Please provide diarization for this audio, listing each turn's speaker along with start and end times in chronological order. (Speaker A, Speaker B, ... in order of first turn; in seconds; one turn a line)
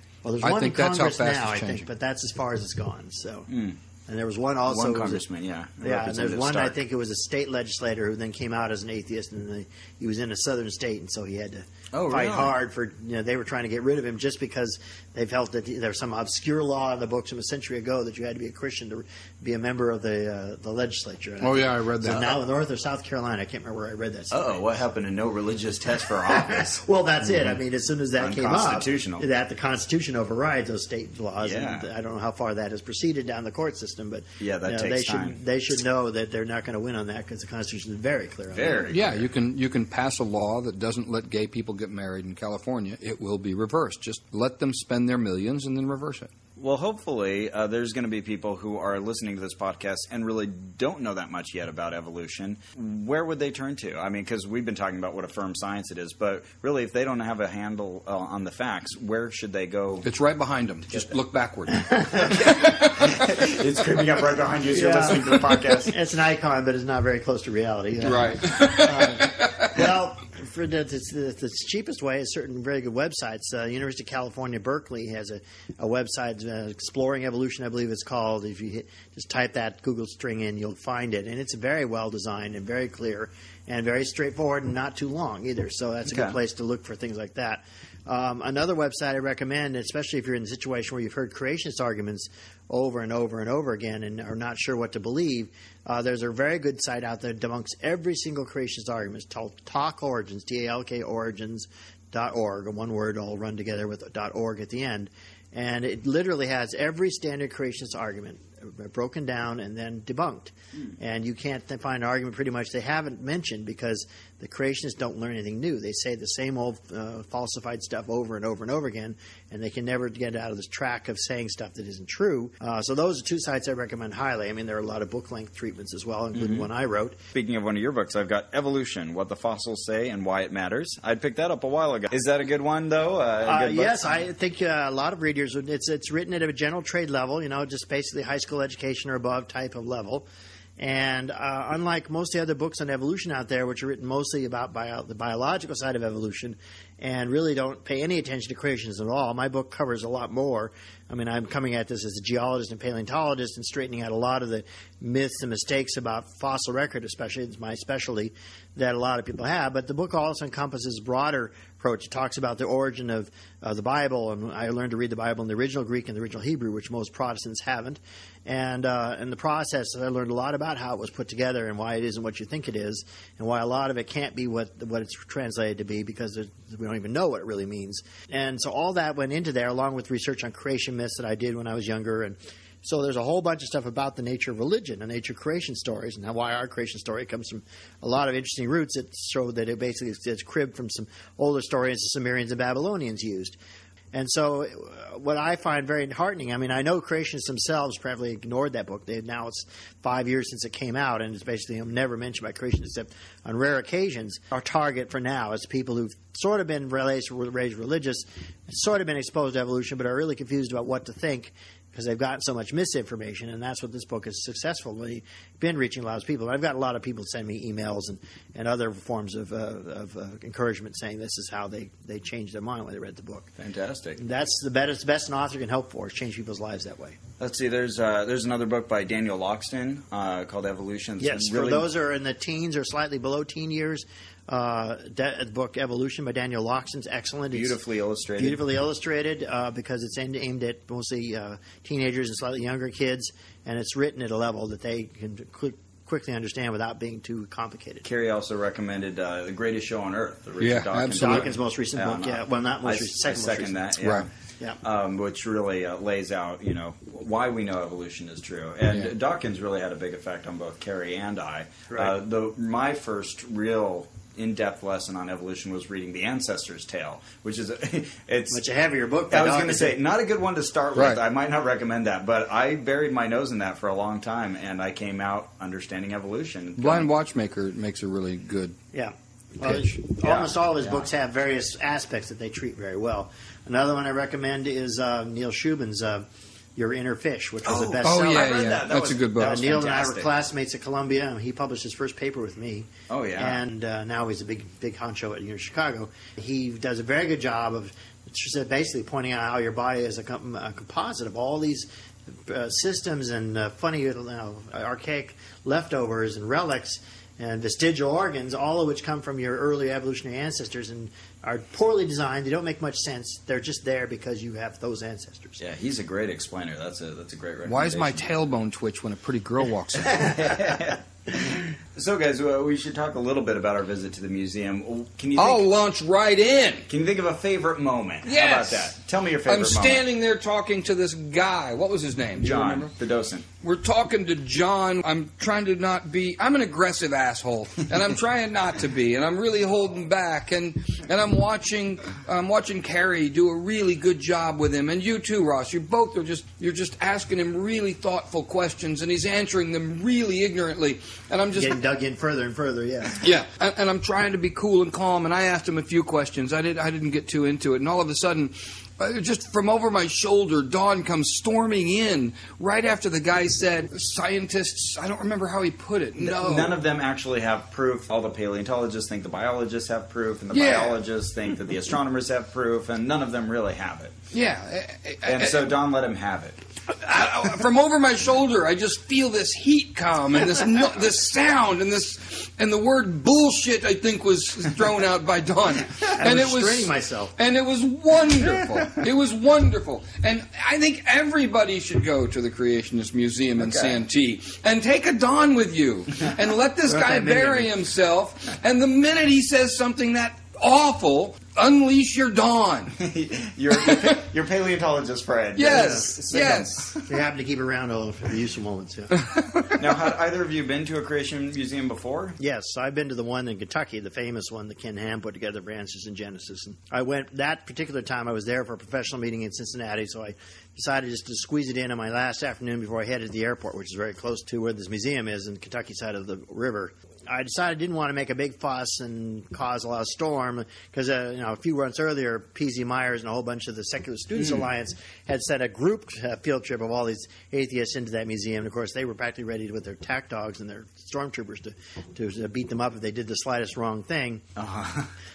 Speaker A: 0.2-3.5
Speaker B: 0.4-1.9
Speaker C: 3.5-3.8
Speaker A: 4.1-5.2
Speaker C: 4.7-6.8
Speaker A: 5.8-24.6
Speaker C: 11.9-12.5
Speaker B: 21.4-22.2
Speaker C: 22.1-22.3
Speaker C: 24.3-27.4
Speaker A: 26.2-38.9
Speaker C: 28.2-29.2
Speaker C: 31.4-31.9
Speaker C: 34.4-35.4
Speaker C: 38.5-39.3
Speaker B: 38.9-46.3
Speaker C: 46.6-60.0
Speaker B: 60.0-63.2
Speaker A: 61.9-62.2
Speaker C: 62.6-65.9
Speaker A: 64.7-127.2
Speaker B: 68.0-69.8
Speaker C: 86.0-86.4
Speaker C: 126.3-126.7
Speaker C: 127.3-134.2
Speaker A: 133.4-193.6
Speaker A: 194.1-223.5
Speaker C: 223.6-224.2
Speaker A: 224.2-227.2
Speaker C: 227.4-231.9
Speaker A: 231.2-237.8
Speaker C: 237.5-238.6
Speaker A: 238.4-248.0
Speaker C: 248.0-254.3
Speaker B: 250.6-251.5
Speaker A: 251.1-253.8
Speaker B: 254.0-254.3
Speaker C: 254.8-268.6
Speaker A: 261.9-262.1
Speaker A: 268.5-270.0
Speaker C: 269.3-277.1
Speaker B: 270.9-271.2
Speaker B: 276.8-278.8
Speaker A: 278.9-286.2
Speaker C: 280.2-281.0
Speaker A: 286.8-288.8
Speaker C: 287.7-290.3
Speaker B: 288.0-289.6
Speaker A: 289.4-315.6
Speaker C: 293.1-293.6
Speaker C: 315.6-318.3
Speaker B: 317.7-320.3
Speaker C: 320.0-325.7
Speaker B: 325.4-326.9
Speaker C: 326.9-330.0
Speaker B: 328.2-328.8
Speaker B: 329.4-332.9
Speaker C: 332.4-333.4
Speaker B: 333.6-351.8
Speaker A: 351.5-353.3
Speaker B: 353.2-366.8
Speaker C: 366.2-374.1
Speaker B: 370.5-371.0
Speaker B: 374.3-375.7
Speaker C: 375.2-376.6
Speaker B: 376.9-403.0
Speaker A: 386.1-387.3
Speaker C: 393.6-393.9
Speaker A: 396.9-397.7
Speaker C: 403.0-407.1
Speaker B: 405.5-406.8
Speaker A: 405.7-406.4
Speaker A: 407.1-409.1
Speaker B: 409.3-409.6
Speaker C: 409.7-412.4
Speaker A: 412.4-444.4
Speaker C: 444.6-445.1